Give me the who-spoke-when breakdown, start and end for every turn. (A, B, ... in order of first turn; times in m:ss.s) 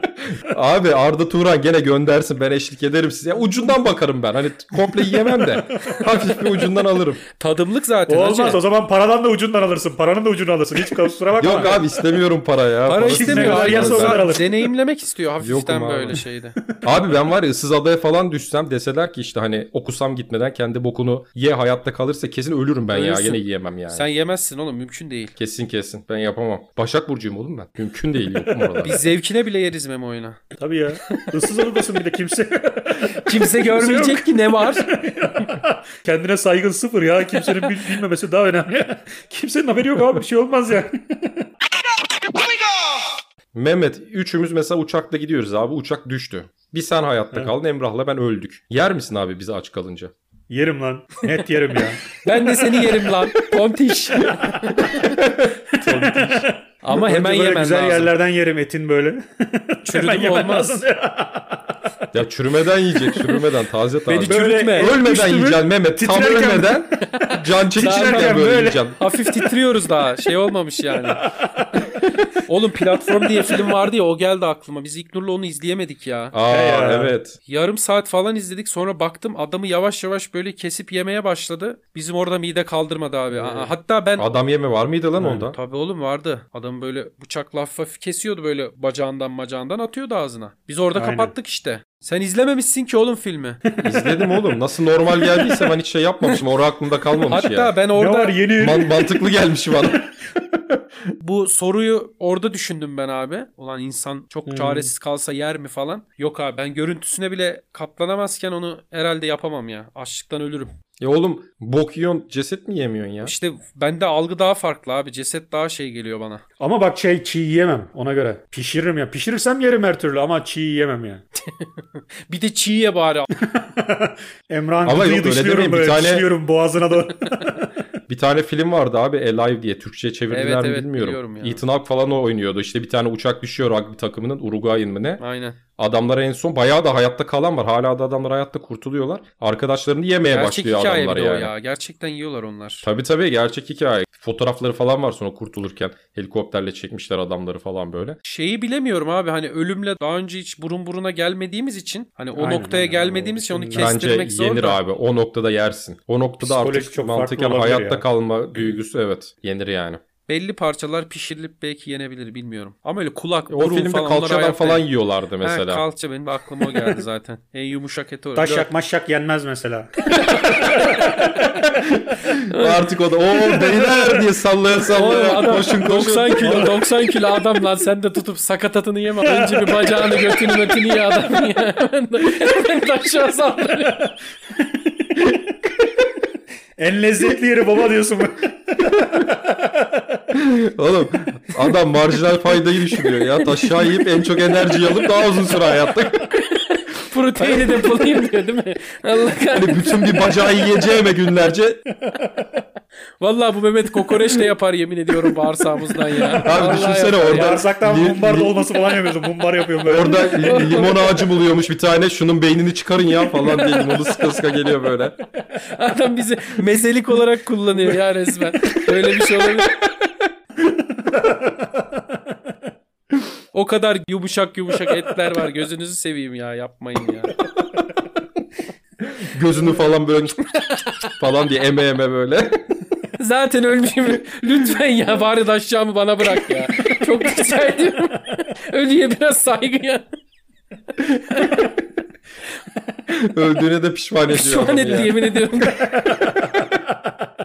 0:00.2-0:07.2 A
0:05.1-0:06.0 B
0:07.4-0:08.6 C
0:08.1-0:11.8 B
0:11.4-0:14.4 A
0:12.8-0:16.6 C
0:13.0-0:14.7 B
0:15.4-0:16.2 A
0:16.8-0:24.0 A
0:22.9-0:25.3 C
0:25.4-0:29.0 A
0:28.5-0:28.8 B
0:28.8-0:30.4 C
0:30.6-0:41.5 B
0:33.2-0:34.9 C
0:43.5-0:50.1 A
0:50.5-0:52.0 B
0:52.2-0:54.8 C
0:54.3-0:56.5 A
0:54.5-0:55.2 B
0:55.8-1:01.6 B
0:56.8-0:58.1 C
0:59.8-1:00.8 C
1:02.1-1:09.0 A
1:04.0-1:05.0 C
1:04.2-1:06.8 B
1:07.3-1:11.3 C
1:07.7-1:09.0 B
1:11.0-1:11.9 B
1:12.4-1:16.3 C
1:16.3-1:17.4 A
1:16.5-1:17.1 B
1:17.4-1:24.3 C
1:23.3-1:23.7 B
1:24.2-1:25.6 A
1:25.2-1:25.5 B
1:25.5-1:33.6 C
1:30.9-1:31.3 B
1:33.8-1:37.7 A
1:33.8-1:34.4 B
1:37.2-1:38.4 C
1:37.9-1:39.1 B
1:38.6-1:40.0 A
1:41.2-1:50.7 C
1:44.5-1:44.9 B
1:51.0-1:53.3 A
1:53.2-1:56.4 C
1:56.6-2:01.2 B
2:01.4-2:03.3 C
2:03.4-2:07.6 B
2:04.8-2:06.2 A
2:08.1-2:15.2 A
2:10.3-2:11.6 C
2:15.2-2:15.6 C
2:15.8-2:21.5 A
2:20.3-2:22.8 C
2:22.8-2:28.2 A
2:28.2-2:34.8 C
2:32.4-2:33.9 B
2:33.7-2:40.0 A
2:36.4-2:38.0 B
2:40.3-2:44.8 C
2:43.5-2:45.8 A
2:45.4-2:48.7 C
2:48.4-2:49.9 B
2:50.1-2:51.4 C
2:50.5-2:51.1 B
2:51.5-2:56.7 A
2:52.5-2:52.9 C
2:54.9-3:04.1 C
2:56.4-2:56.8 B
2:59.2-3:00.7 B
3:06.8-3:09.9 B
3:10.3-3:16.3 A
3:16.3-3:20.3 C
3:17.4-3:17.8 A
3:19.5-3:21.8 A
3:23.2-3:27.6 C
3:26.4-3:28.6 A
3:27.2-3:30.5 B
3:29.8-3:35.2 A
3:30.3-3:31.2 C
3:35.7-3:39.9 C
3:41.1-3:41.6 B
3:43.5-3:47.3 C
3:49.1-3:50.6 A
3:51.1-3:52.6 A
3:53.2-4:00.0 C
4:01.1-4:01.7 C
4:03.1-4:05.1 A
4:04.3-4:06.1 C
4:05.8-4:06.6 B